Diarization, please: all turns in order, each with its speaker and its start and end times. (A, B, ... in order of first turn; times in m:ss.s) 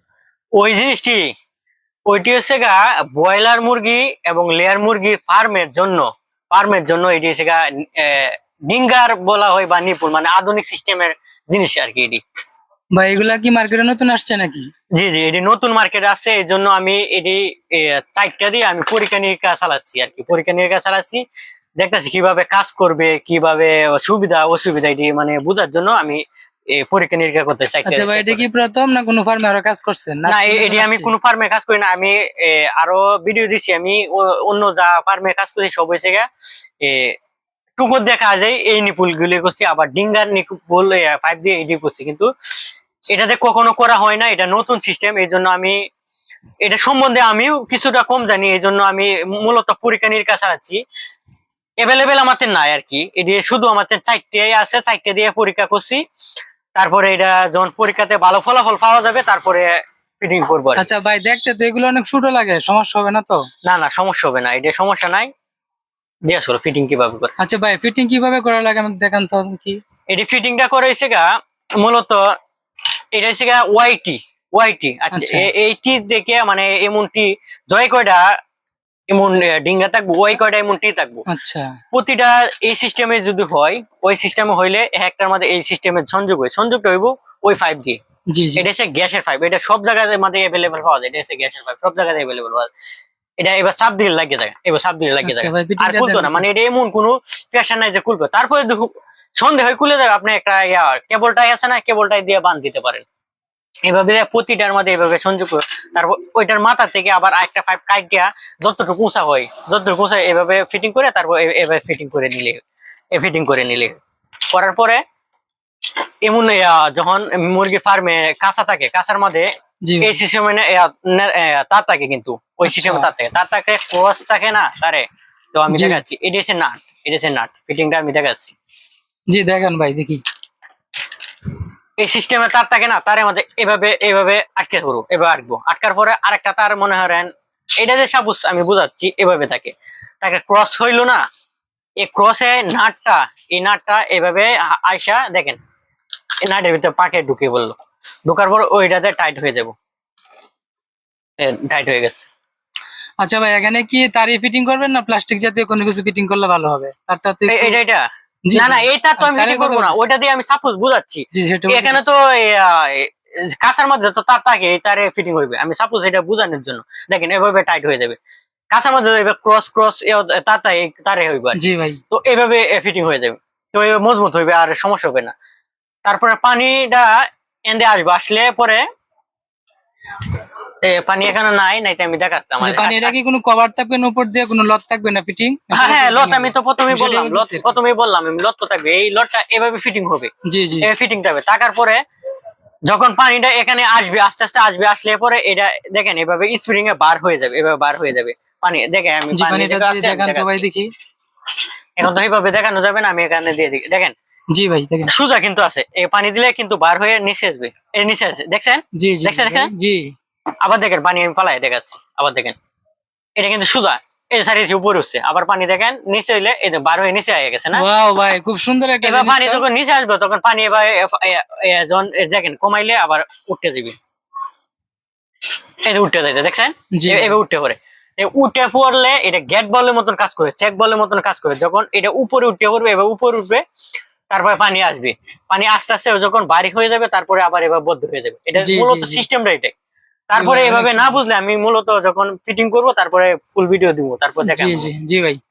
0:00.6-0:01.2 A
0:02.1-0:12.2 A
0:13.0-0:14.7 B
0:15.0-0:21.2 A
0:21.8-0:28.4 A
0:27.9-0:31.1 B
0:30.3-0:36.3 A
0:36.8-0:37.1 A
0:37.8-0:42.3 A
0:43.1-0:45.8 A
0:46.6-0:50.8 A
0:51.8-0:56.0 A
0:56.8-1:00.9 A
1:00.8-1:03.5 B
1:03.6-1:05.3 A
1:06.3-1:07.3 A
1:07.4-1:09.8 B
1:10.1-1:12.3 A
1:13.1-1:18.3 A
1:15.1-1:15.5 B
1:19.1-1:21.2 A
1:21.3-1:21.7 B
1:21.9-1:28.0 A
1:28.3-1:28.6 B
1:28.6-1:32.7 A
1:33.4-1:43.0 A
1:35.2-1:36.4 B
1:43.9-1:52.6 A
1:53.1-1:54.0 A
1:54.5-1:55.0 A
1:56.2-1:59.5 A
1:59.9-2:00.2 B
2:00.0-2:08.6 A
2:02.7-2:03.1 B
2:05.7-2:06.0 B
2:09.3-2:10.2 B
2:12.0-2:21.2 A
2:22.0-2:25.6 A
2:26.4-2:29.7 A
2:31.4-2:32.3 A
2:33.2-2:37.8 B
2:37.5-2:48.2 A
2:38.5-2:40.0 B
2:41.3-2:42.0 B
2:48.7-2:55.3 A
2:51.6-2:52.0 B
2:56.1-2:58.8 A
3:00.8-3:03.1 A
3:02.6-3:07.7 B
3:05.7-3:10.3 A
3:10.5-3:10.9 B
3:10.8-3:12.0 A
3:12.9-3:20.6 A
3:19.3-3:20.9 B
3:22.0-3:24.1 A
3:24.5-3:25.1 B
3:25.1-3:29.7 A
3:29.0-3:30.1 B
3:30.6-3:32.6 A
3:33.4-3:37.8 A
3:37.7-3:39.6 B
3:39.0-3:44.0 A
3:45.9-3:53.6 A
3:46.9-3:47.4 B
3:54.3-3:59.7 A
3:58.6-3:59.2 B
4:00.3-4:04.9 A
4:00.3-4:01.2 B
4:04.4-4:05.4 B